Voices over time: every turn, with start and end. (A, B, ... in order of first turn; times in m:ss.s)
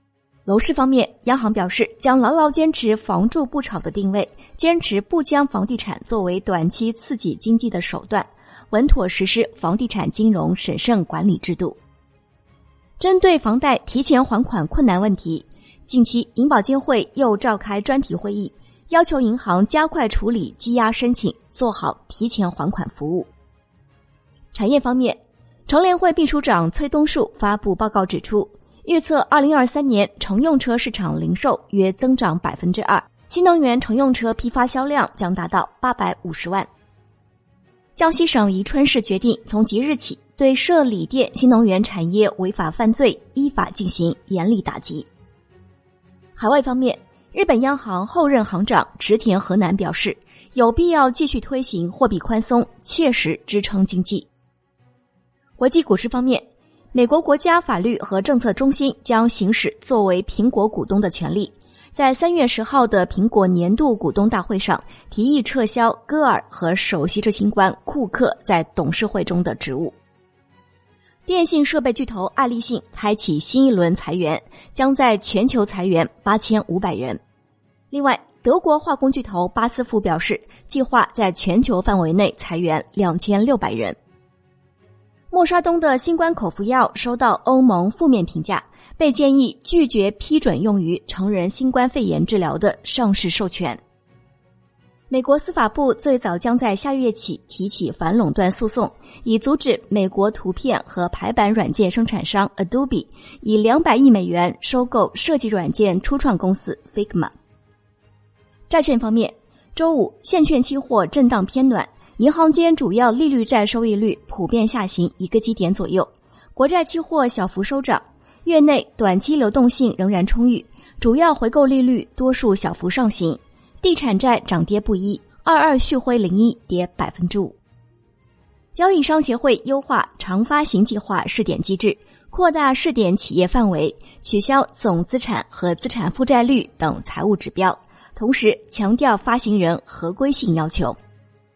0:00.4-0:11.8 A
0:13.0-0:23.3 A
0:24.5-0:36.7 A
0:38.0-0:45.1 A
0:46.4-0:54.3 A
0:55.6-1:10.0 A
1:11.2-1:17.2 A
1:17.9-1:24.0 A
1:25.3-1:33.8 A
1:35.1-1:47.3 A
1:48.7-2:07.6 A
2:08.7-2:21.0 A